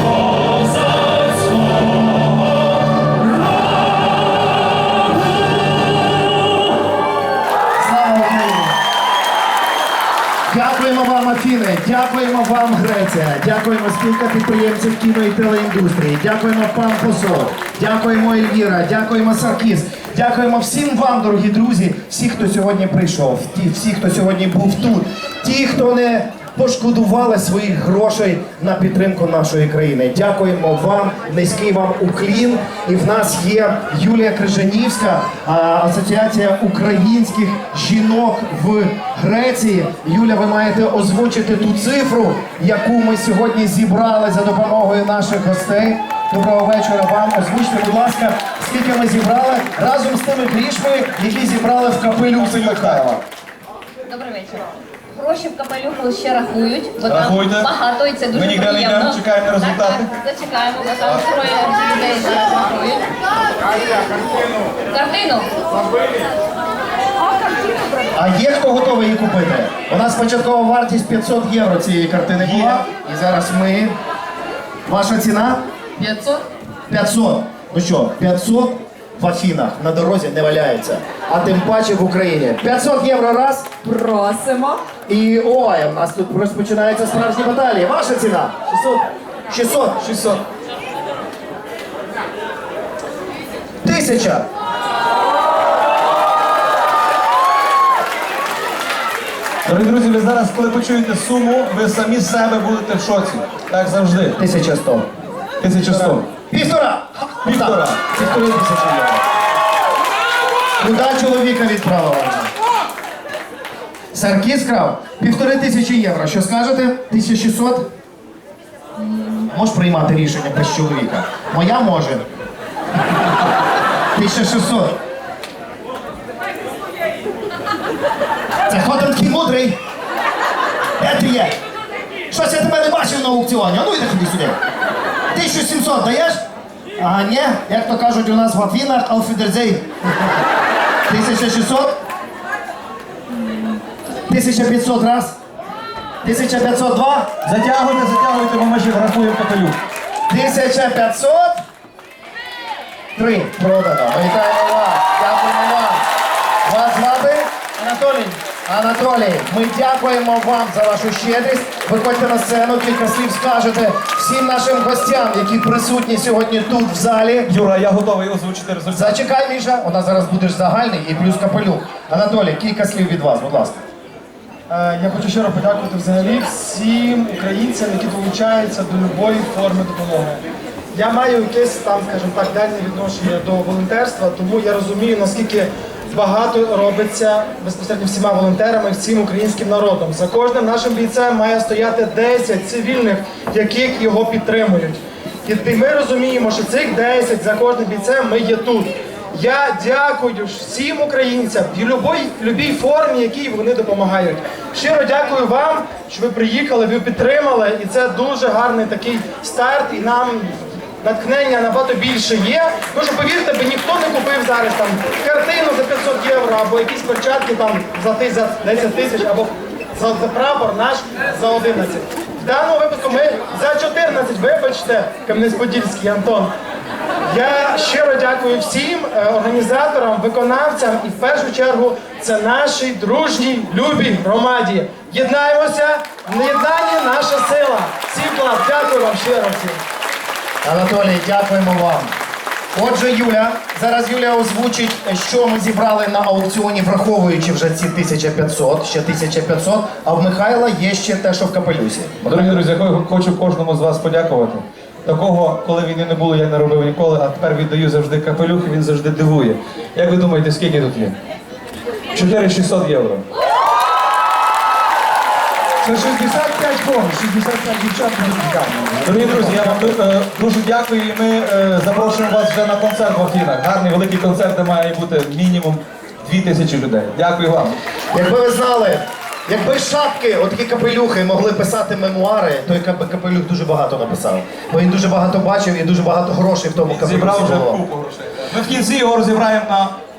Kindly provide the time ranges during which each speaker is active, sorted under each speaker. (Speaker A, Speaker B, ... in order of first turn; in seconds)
Speaker A: 7.8-8.8, 10.5-53.2, 68.2-73.9, 74.9-75.6, 76.9-83.9, 85.1-90.0, 93.8-94.5, 104.4-105.1, 106.5-109.2, 110.8-112.5, 114.1-117.9, 119.3-122.2, 124.1-125.0, 128.7-129.8, 131.0-131.6, 132.3-134.6, 135.3-136.4, 137.0-139.9, 141.1-142.0, 144.3-145.4, 146.2-147.3, 150.3-151.6, 153.2-156.1, 156.6-157.5, 158.7-167.5, 168.9-173.8, 240.6-242.1, 242.7-252.6, 278.1-287.8
Speaker B: 52.5-53.1, 57.1-57.7, 58.3-60.1, 90.0-90.4, 99.7-104.4, 105.6-106.3, 107.5-108.2, 147.4-149.8, 167.5-169.2, 252.2-261.1, 262.1-263.2, 269.1-277.8, 286.9-289.9
Speaker C: 54.1-63.1, 64.9-65.5, 76.0-76.4, 84.0-84.8
Speaker D: 157.8-158.3, 174.7-180.4, 181.0-194.9, 195.6-198.9, 199.4-210.4, 211.1-219.5, 220.0-226.5, 227.3-239.8
Speaker E: 265.8-270.0